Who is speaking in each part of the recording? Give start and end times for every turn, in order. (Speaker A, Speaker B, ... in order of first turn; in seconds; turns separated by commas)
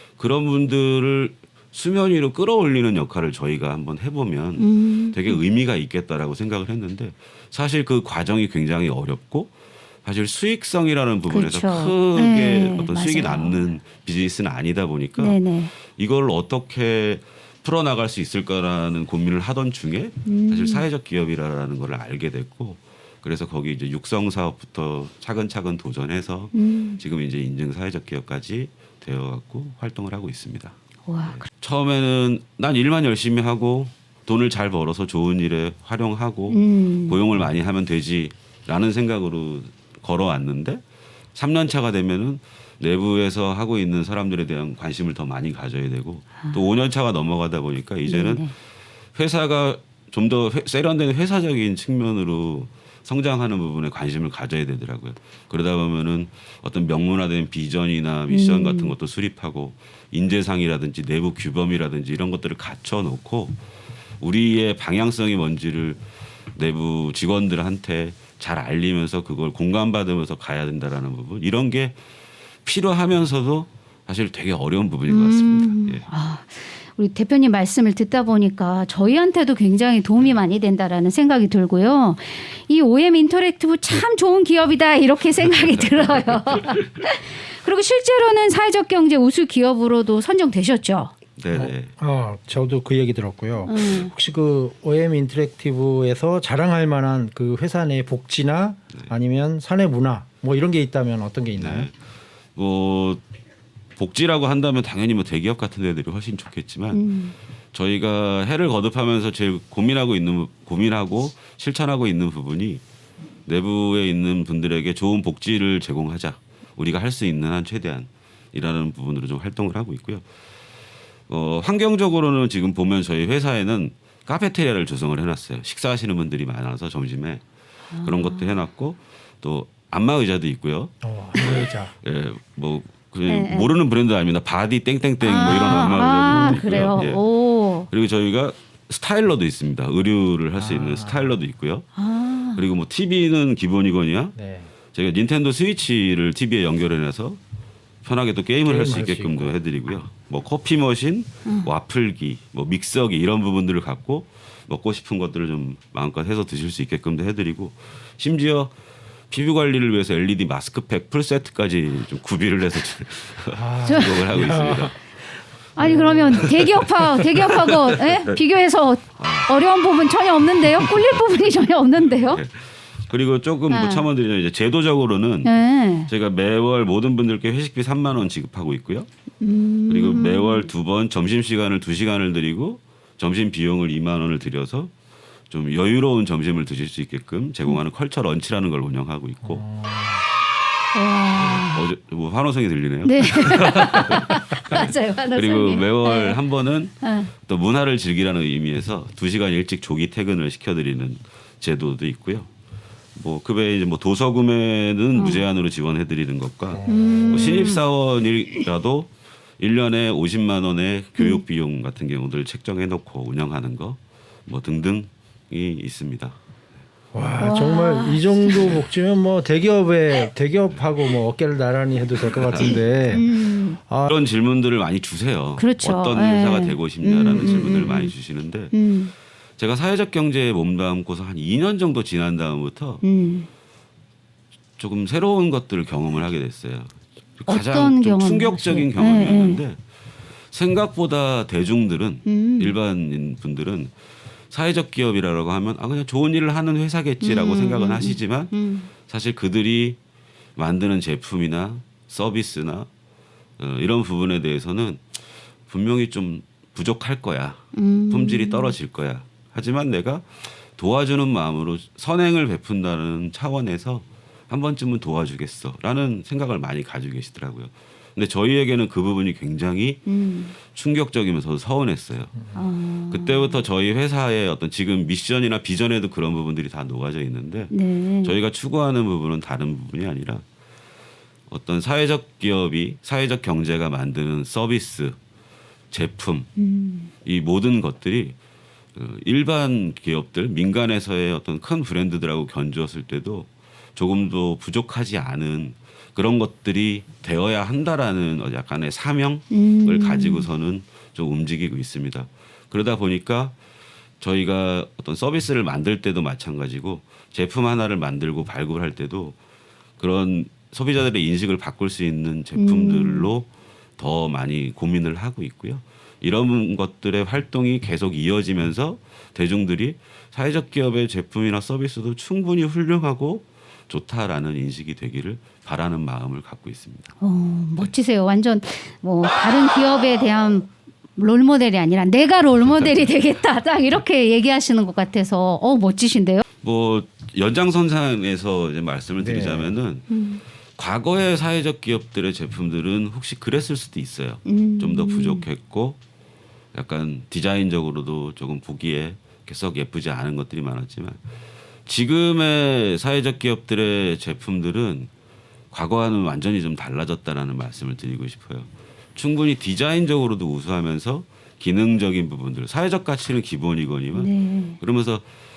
Speaker A: 0.2-40.8, Speaker B: 4.6-5.4, Speaker B: 11.3-13.7, Speaker B: 15.2-15.7, Speaker B: 20.2-20.9, Speaker B: 26.5-27.0, Speaker B: 31.1-31.4, Speaker B: 36.5-37.2, Speaker A: 41.3-48.5, Speaker B: 48.0-48.5, Speaker A: 49.1-63.6, Speaker B: 58.3-58.9, Speaker A: 64.2-66.0, Speaker A: 66.5-72.0, Speaker A: 72.6-76.1, Speaker B: 75.1-91.1, Speaker A: 85.5-86.9, Speaker A: 91.4-91.9, Speaker C: 91.5-101.9, Speaker B: 93.7-94.1, Speaker A: 101.5-101.9, Speaker A: 102.5-103.2, Speaker A: 104.0-107.0, Speaker B: 106.9-107.3, Speaker A: 107.7-112.8, Speaker A: 113.5-120.2, Speaker A: 121.3-127.4, Speaker B: 127.9-128.6, Speaker A: 128.0-137.2, Speaker C: 131.0-131.9, Speaker B: 133.3-133.7, Speaker B: 135.2-137.9, Speaker C: 136.3-136.9, Speaker A: 137.9-141.9, Speaker C: 140.5-141.3, Speaker B: 141.9-142.7, Speaker A: 142.5-144.3, Speaker C: 144.3-144.7, Speaker A: 144.9-147.4, Speaker A: 148.0-158.7, Speaker C: 148.6-149.6, Speaker B: 151.4-151.7, Speaker A: 159.3-165.0, Speaker C: 163.5-164.9, Speaker B: 163.8-164.4, Speaker B: 165.8-172.4, Speaker C: 165.8-166.5, Speaker A: 166.3-168.4, Speaker A: 169.2-169.5, Speaker A: 170.6-171.2, Speaker A: 172.1-175.5, Speaker B: 173.7-174.1, Speaker B: 175.4-176.1, Speaker A: 176.1-179.1, Speaker B: 179.4-180.7, Speaker A: 179.9-184.9, Speaker A: 185.5-189.6, Speaker C: 189.4-190.2, Speaker B: 190.9-191.8, Speaker A: 191.3-202.5, Speaker B: 193.0-196.4, Speaker B: 197.0-197.3, Speaker A: 203.1-216.4, Speaker B: 205.1-205.4, Speaker C: 206.7-207.6, Speaker B: 206.9-207.8, Speaker C: 217.1-224.1, Speaker B: 217.3-218.8, Speaker A: 218.5-218.8, Speaker A: 222.2-222.9, Speaker B: 222.5-223.8, Speaker A: 224.0-228.7, Speaker B: 225.6-228.1, Speaker B: 228.7-229.1, Speaker A: 229.6-233.0, Speaker B: 233.0-233.5, Speaker A: 234.8-239.8, Speaker B: 237.4-239.6, Speaker A: 240.5-243.9, Speaker B: 242.2-242.8, Speaker A: 244.5-250.0, Speaker B: 247.2-248.9, Speaker A: 250.6-252.9, Speaker A: 253.6-255.1, Speaker A: 255.7-270.0, Speaker B: 257.7-258.7, Speaker B: 270.1-270.5, Speaker A: 270.6-272.3, Speaker B: 272.5-273.6, Speaker A: 273.1-280.4, Speaker B: 277.7-278.3, Speaker A: 281.5-285.1, Speaker A: 285.9-286.5, Speaker B: 286.6-287.1, Speaker A: 287.2-288.4, Speaker A: 288.9-303.6, Speaker B: 299.5-300.5, Speaker A: 304.2-309.4, Speaker A: 310.0-327.1, Speaker B: 312.5-313.3, Speaker B: 327.2-336.4, Speaker A: 332.6-333.2, Speaker A: 336.6-340.1, Speaker C: 339.2-339.8, Speaker B: 340.1-340.4, Speaker A: 340.8-346.0, Speaker B: 344.4-345.4, Speaker A: 346.7-351.2, Speaker A: 351.9-355.1, Speaker A: 355.7-365.2, Speaker B: 364.1-364.8